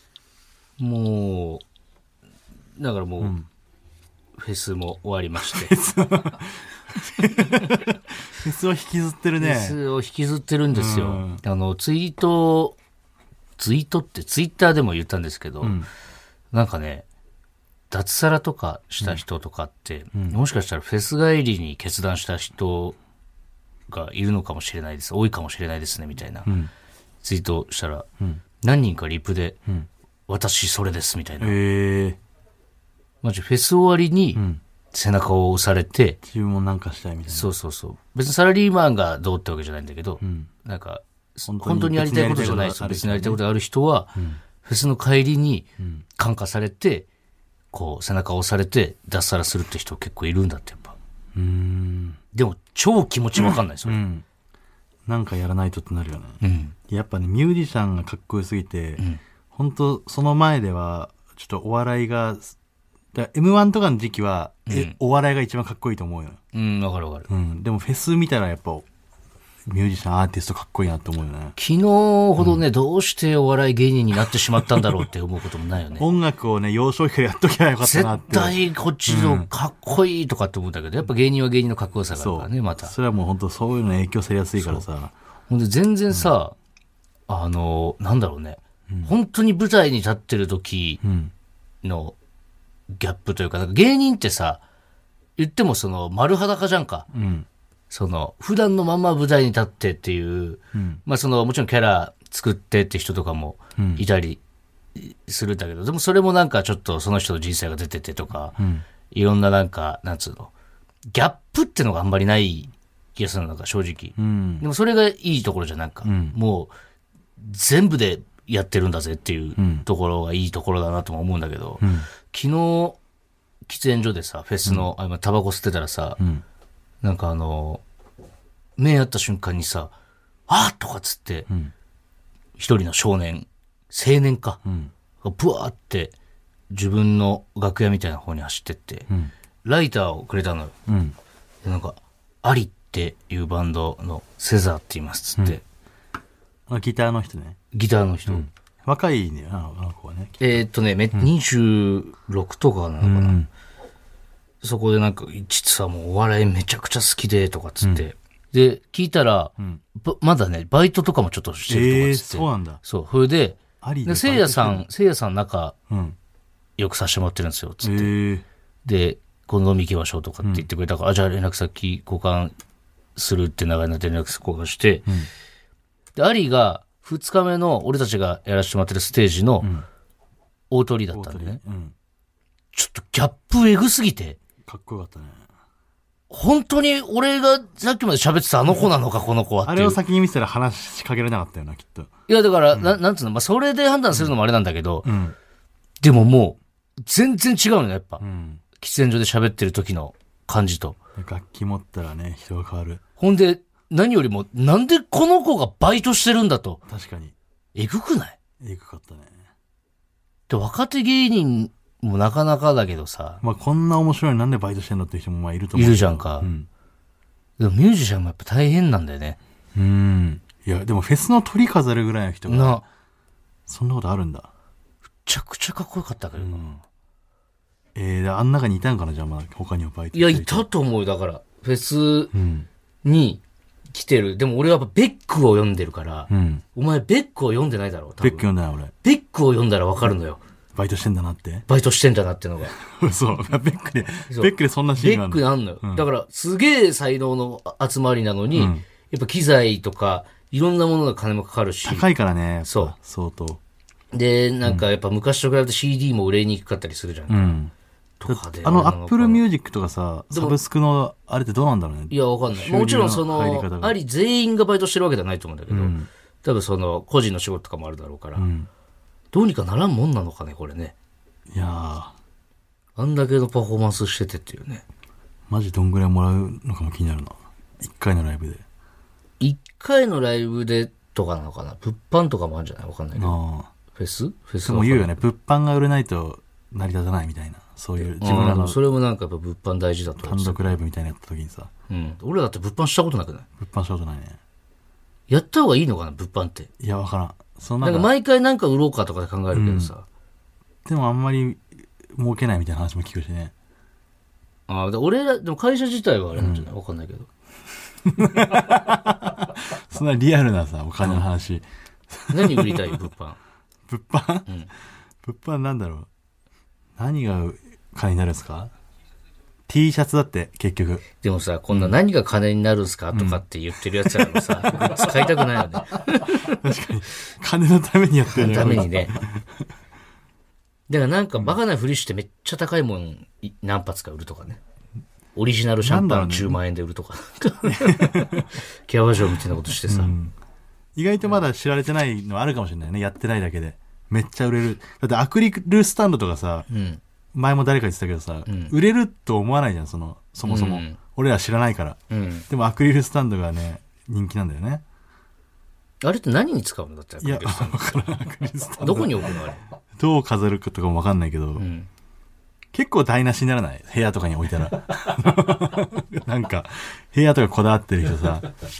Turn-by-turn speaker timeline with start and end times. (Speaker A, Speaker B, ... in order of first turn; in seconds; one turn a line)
Speaker A: 0.8-1.6
Speaker A: 2.8-3.3
Speaker B: 3.2-3.5
Speaker A: 4.4-5.7
Speaker B: 5.4-9.8
Speaker A: 9.4-12.8
Speaker B: 10.7-11.4
Speaker A: 13.6-15.8
Speaker B: 15.6-15.9
Speaker A: 16.5-17.0
Speaker A: 17.9-23.0
Speaker B: 20.1-20.4
Speaker A: 23.9-26.5
Speaker A: 27.2-28.1
Speaker A: 28.6-29.6
Speaker A: 30.3-31.6
Speaker B: 31.4-32.2
Speaker A: 33.2-36.2
Speaker B: 34.4-34.6
Speaker B: 36.2-37.5
Speaker A: 37.3-47.1
Speaker B: 40.2-40.5
Speaker B: 41.5-43.4
Speaker A: 47.7-50.9
Speaker B: 51.3-52.2
Speaker A: 52.3-54.0
Speaker B: 53.8-54.2
Speaker B: 55.1-62.5
Speaker A: 56.4-56.7
Speaker B: 63.1-66.4
Speaker A: 64.7-65.0
Speaker A: 66.5-67.3
Speaker B: 67.3-68.8
Speaker B: 69.7-71.5
Speaker A: 71.6-76.1
Speaker B: 74.7-75.0
Speaker B: 76.0-79.5
Speaker A: 77.8-82.9
Speaker B: 82.1-85.1
Speaker A: 84.6-84.8
Speaker A: 85.5-86.5
Speaker A: 87.3-91.0
Speaker B: 88.9-89.1
Speaker B: 91.0-91.3
Speaker A: 91.8-92.2
Speaker A: 92.9-94.6
Speaker A: 95.4-97.1
Speaker B: 97.1-97.5
Speaker A: 97.9-104.4
Speaker B: 100.7-101.0
Speaker B: 103.8-104.0
Speaker A: 104.9-108.6
Speaker B: 108.6-108.8
Speaker A: 109.1-110.5
Speaker A: 111.1-116.7
Speaker B: 114.2-114.7
Speaker B: 116.0-116.4
Speaker A: 117.4-123.0
Speaker B: 119.6-119.8
Speaker B: 121.8-122.1
Speaker A: 123.7-126.2
Speaker A: 127.0-127.8
Speaker A: 128.8-129.9
Speaker A: 130.5-131.5
Speaker A: 132.6-134.6
Speaker B: 134.6-134.9
Speaker A: 135.2-136.1
Speaker A: 136.7-139.1
Speaker A: 139.6-140.7
Speaker B: 140.9-141.2
Speaker A: 141.6-145.6
Speaker B: 146.7-147.6
Speaker A: 147.7-148.5
Speaker B: 148.3-150.6
Speaker A: 150.4-153.4
Speaker B: 153.0-153.5
Speaker A: 154.6-165.7
Speaker B: 161.7-162.8
Speaker B: 163.8-164.9
Speaker B: 165.9-166.2
Speaker A: 166.8-168.1
Speaker B: 167.8-168.4
Speaker A: 168.8-172.5
Speaker A: 173.2-175.1
Speaker A: 176.1-179.7
Speaker B: 179.6-179.8
Speaker A: 180.7-181.6
Speaker B: 181.1-181.9
Speaker A: 182.7-184.4
Speaker B: 184.6-185.4
Speaker A: 186.3-190.0
Speaker B: 189.6-192.1
Speaker A: 192.3-195.1
Speaker B: 192.7-193.0
Speaker B: 195.0-195.3
Speaker A: 196.0-198.2
Speaker B: 198.2-198.6
Speaker A: 198.8-200.9
Speaker B: 201.2-203.0
Speaker A: 203.2-206.8
Speaker B: 206.9-207.3
Speaker A: 207.7-208.4
Speaker B: 208.6-209.3
Speaker A: 210.5-213.4
Speaker B: 213.4-216.7
Speaker A: 215.7-216.5
Speaker A: 217.6-219.4
Speaker B: 219.7-222.8
Speaker A: 222.5-222.8
Speaker B: 223.7-224.5
Speaker A: 225.2-226.6
Speaker B: 226.4-226.8
Speaker B: 227.9-230.7
Speaker A: 230.1-232.3
Speaker B: 232.3-232.7
Speaker A: 233.0-238.4
Speaker B: 236.3-236.6
Speaker B: 238.2-238.9
Speaker A: 239.0-240.4
Speaker B: 240.7-241.7
Speaker A: 241.7-242.7
Speaker B: 242.7-246.1
Speaker A: 244.3-252.1
Speaker B: 248.5-248.8
Speaker B: 251.8-253.6
Speaker A: 252.7-252.9
Speaker A: 254.1-257.6
Speaker B: 257.3-257.7
Speaker A: 258.2-259.4
Speaker B: 258.3-264.0
Speaker A: 260.3-260.6
Speaker A: 262.1-268.5
Speaker B: 265.7-266.1
Speaker B: 268.4-268.7
Speaker A: 269.3-270.9
Speaker B: 271.5-272.1
Speaker A: 272.9-274.8
Speaker B: 275.5-278.6
Speaker A: 279.4-283.4
Speaker B: 283.1-283.7
Speaker A: 283.9-285.1
Speaker B: 284.6-288.8
Speaker A: 288.0-290.6
Speaker B: 290.2-291.7
Speaker A: 291.9-293.4
Speaker B: 293.6-294.4
Speaker A: 295.3-296.7
Speaker B: 296.8-298.1
Speaker A: 297.8-300.0
Speaker B: 299.5-299.9
Speaker B: 300.8-303.5
Speaker A: 304.7-307.3
Speaker B: 306.4-306.7
Speaker B: 308.1-313.1
Speaker A: 312.3-313.4
Speaker B: 313.9-314.5
Speaker B: 315.2-316.1
Speaker B: 317.0-318.7
Speaker B: 319.7-321.0
Speaker A: 321.2-326.6
Speaker B: 321.7-322.0
Speaker B: 323.1-329.5
Speaker A: 328.3-329.1
Speaker A: 330.9-334.6
Speaker A: 335.3-340.1
Speaker B: 335.8-336.6
Speaker B: 337.7-338.6
Speaker B: 339.9-340.3
Speaker B: 340.9-346.7
Speaker A: 346.7-347.0
Speaker B: 347.3-354.8
Speaker A: 348.5-348.7
Speaker A: 350.5-351.0
Speaker A: 352.1-352.4
Speaker A: 356.0-358.1
Speaker B: 357.2-359.3
Speaker A: 358.8-359.6
Speaker B: 360.0-361.6
Speaker A: 361.6-361.9
Speaker B: 362.7-368.5